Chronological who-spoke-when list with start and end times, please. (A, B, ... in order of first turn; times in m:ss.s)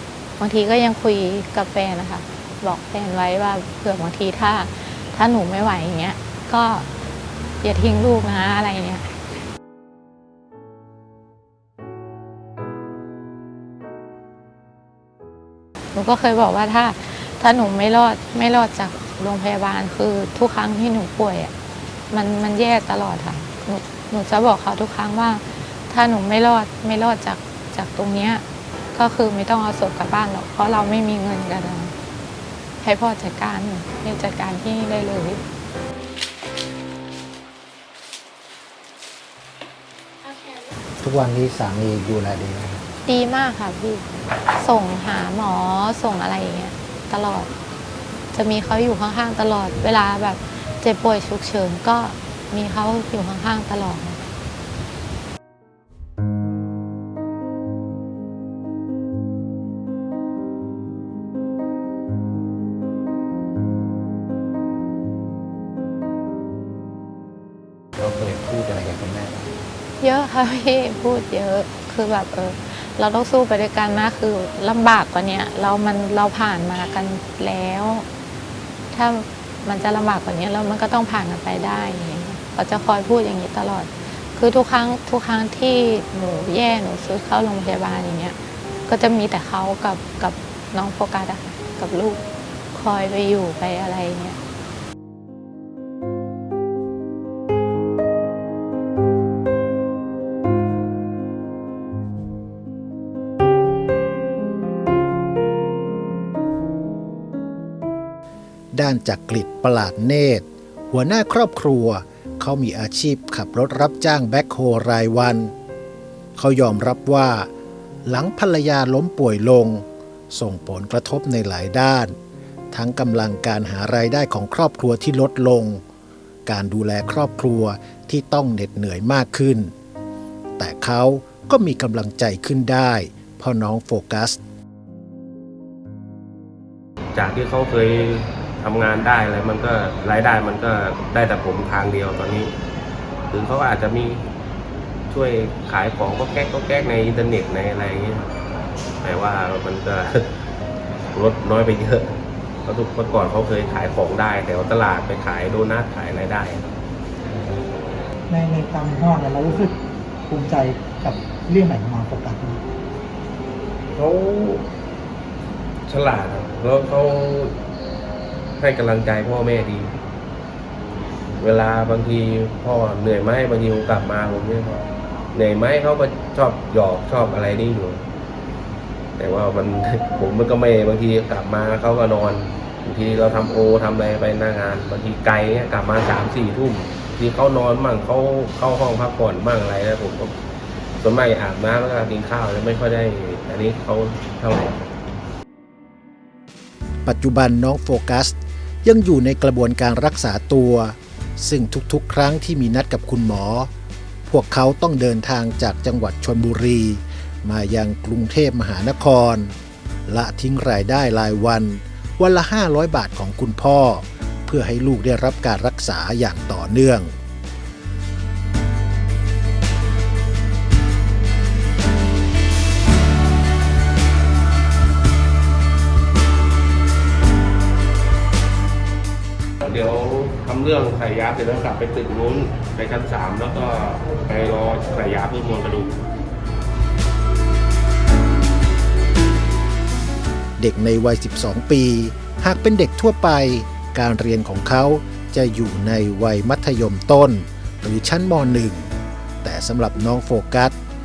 0:00.4-0:06.9 A
0:07.6-0:09.1 A
0:15.9-0:21.5 A
0:22.1-0:28.4 A
0:28.9-0:31.9 A
0:32.8-0:35.4 A
0:41.0-0:42.8 B
0:43.0-0:44.0 A
0:44.6-0:47.5 A
0:48.3-0:54.2 A
1:08.0-1:09.5 B
1:10.0-1:18.0 A
1:18.9-1:28.4 A
1:28.9-1:32.2 A
1:32.7-1:34.4 A
1:48.7-1:55.5 C
1:56.4-1:57.5 C
1:58.0-2:02.2 C
2:02.7-2:05.8 C
2:06.4-2:09.7 C
2:10.6-2:14.4 C
2:17.1-2:22.5 D
2:23.3-2:24.2 D
2:25.1-2:28.3 D
2:29.0-2:30.3 D
2:31.1-2:36.7 D
2:38.3-2:39.8 E
2:40.3-2:42.6 E
2:43.9-2:44.6 D
2:45.9-2:47.5 D
2:48.6-2:49.9 D
2:51.4-2:58.0 D
2:59.2-3:10.3 D
3:11.0-3:14.9 D
3:17.0-3:23.7 C
3:24.3-3:29.5 C
3:30.1-3:37.1 C
3:49.6-3:56.0 D
4:00.6-4:08.9 C
4:09.4-4:10.7 C